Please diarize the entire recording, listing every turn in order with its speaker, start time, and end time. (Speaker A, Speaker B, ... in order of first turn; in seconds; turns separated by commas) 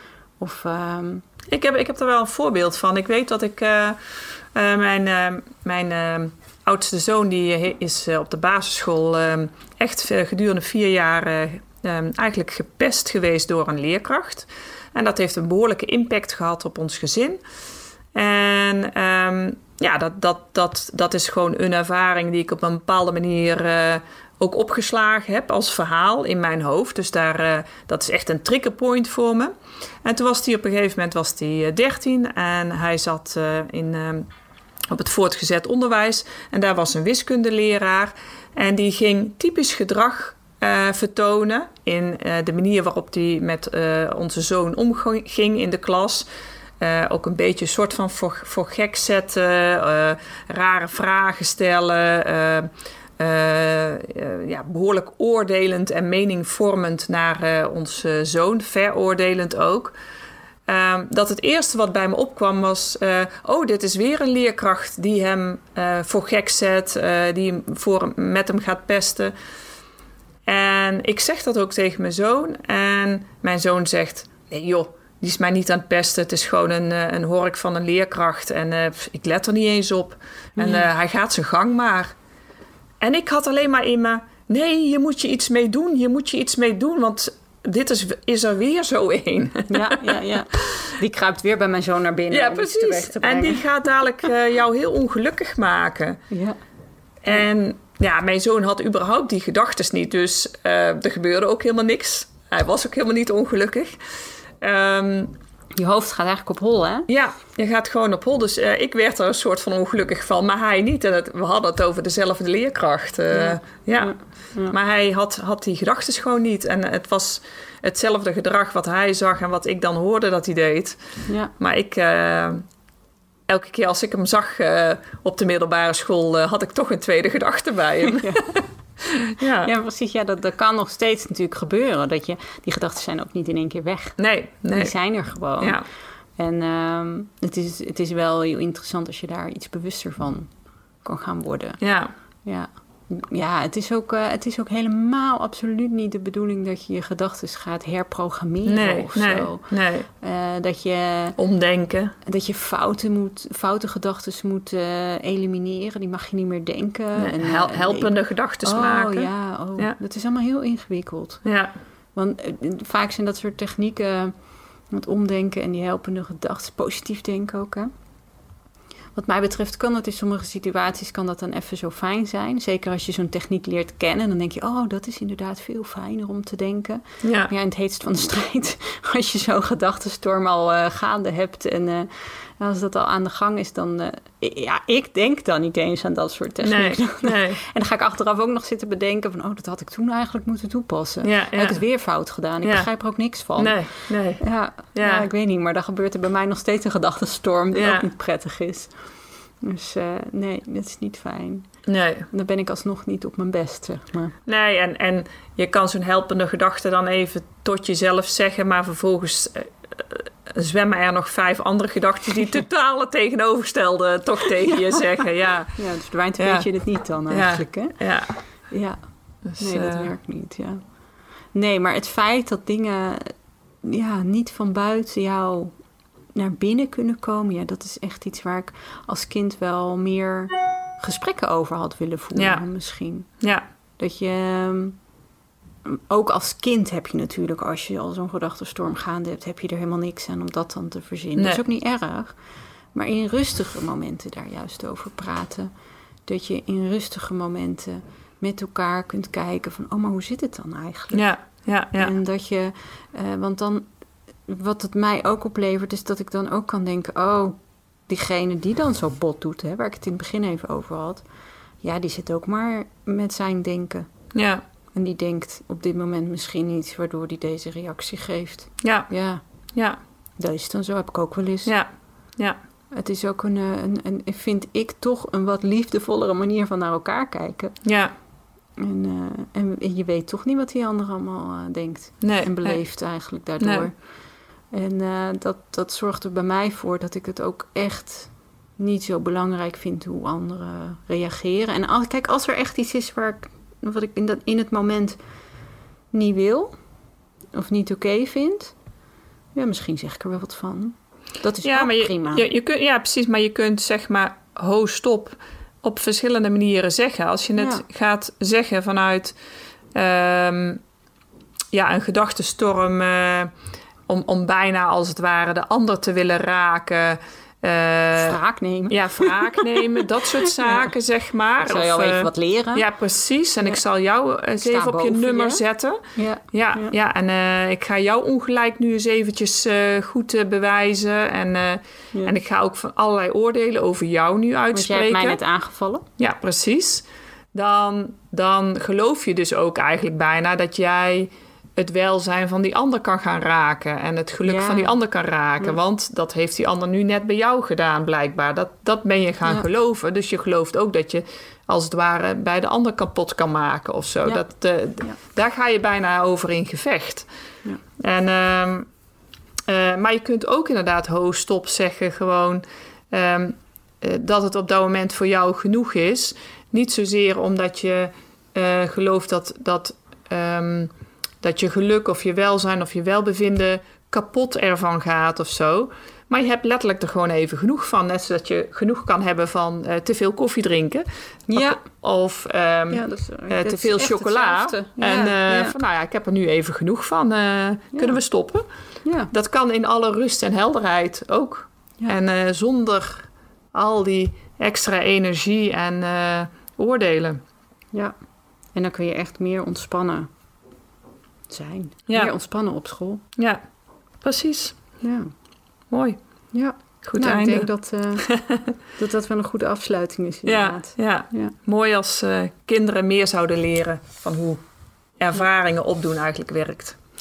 Speaker A: 0.4-1.2, Speaker B: 1.5-17.4, Speaker B: 18.1-34.3, Speaker B: 34.9-46.3, Speaker B: 46.8-59.9, Speaker B: 60.7-69.3, Speaker B: 70.5-82.1, Speaker A: 80.6-80.9, Speaker B: 83.0-90.6, Speaker A: 89.7-93.6, Speaker B: 92.3-96.2, Speaker A: 96.3-96.6, Speaker B: 97.2-104.0, Speaker B: 104.6-105.3, Speaker A: 105.8-107.1, Speaker B: 107.1-114.1, Speaker A: 113.3-114.7, Speaker B: 114.7-122.6, Speaker A: 121.3-121.5, Speaker B: 123.5-129.7, Speaker A: 128.1-128.6, Speaker A: 129.6-134.2, Speaker B: 134.2-135.8, Speaker A: 134.7-135.8, Speaker A: 136.4-141.8, Speaker B: 141.8-142.1, Speaker A: 142.4-151.4, Speaker B: 148.7-150.1, Speaker B: 151.4-152.1, Speaker A: 152.2-158.1, Speaker B: 157.2-159.9, Speaker A: 158.6-161.4, Speaker B: 161.4-161.7, Speaker A: 162.1-167.9, Speaker A: 169.1-199.1, Speaker B: 177.2-177.5, Speaker B: 186.6-187.6, Speaker B: 191.2-191.8, Speaker B: 192.6-195.2, Speaker B: 197.7-198.1, Speaker A: 199.6-201.7, Speaker B: 201.9-202.3, Speaker A: 202.3-204.3, Speaker B: 204.4-215.8, Speaker A: 214.6-220.9, Speaker B: 216.4-218.4, Speaker B: 219.4-220.1, Speaker A: 221.5-225.8, Speaker A: 226.3-233.3, Speaker B: 232.4-232.6, Speaker B: 233.4-233.6, Speaker A: 234.0-235.0, Speaker A: 235.8-242.4, Speaker A: 242.9-245.7, Speaker A: 246.2-251.3, Speaker B: 251.1-252.1, Speaker A: 252.0-253.9, Speaker A: 254.4-257.6, Speaker A: 258.1-261.2, Speaker A: 261.8-264.1, Speaker B: 264.3-264.6, Speaker A: 264.9-269.4, Speaker B: 268.8-269.1, Speaker A: 270.4-271.7, Speaker B: 271.6-272.6, Speaker A: 272.9-277.8, Speaker B: 277.9-278.1, Speaker A: 278.8-295.2, Speaker B: 282.2-283.9, Speaker A: 296.1-296.7, Speaker A: 297.5-298.7, Speaker A: 299.6-302.4, Speaker B: 301.6-309.4, Speaker A: 307.6-307.8, Speaker B: 309.9-310.8, Speaker B: 311.7-313.5, Speaker B: 314.1-326.0, Speaker A: 318.2-319.8, Speaker A: 320.5-320.9, Speaker A: 321.6-322.8, Speaker A: 324.6-325.6, Speaker A: 326.1-326.9, Speaker B: 326.5-335.4, Speaker A: 334.7-336.1, Speaker B: 336.2-357.3, Speaker A: 344.4-344.9, Speaker B: 358.0-358.9, Speaker B: 359.7-388.6, Speaker A: 381.5-381.8, Speaker A: 382.9-385.7, Speaker A: 389.0-389.3, Speaker B: 389.3-397.4, Speaker A: 398.7-400.3, Speaker A: 401.5-403.2, Speaker B: 404.2-404.8, Speaker A: 405.0-405.3, Speaker B: 405.9-406.2, Speaker A: 406.5-408.3, Speaker B: 407.0-407.7, Speaker B: 408.2-408.7, Speaker A: 408.9-411.5, Speaker B: 410.4-414.6, Speaker B: 415.2-417.0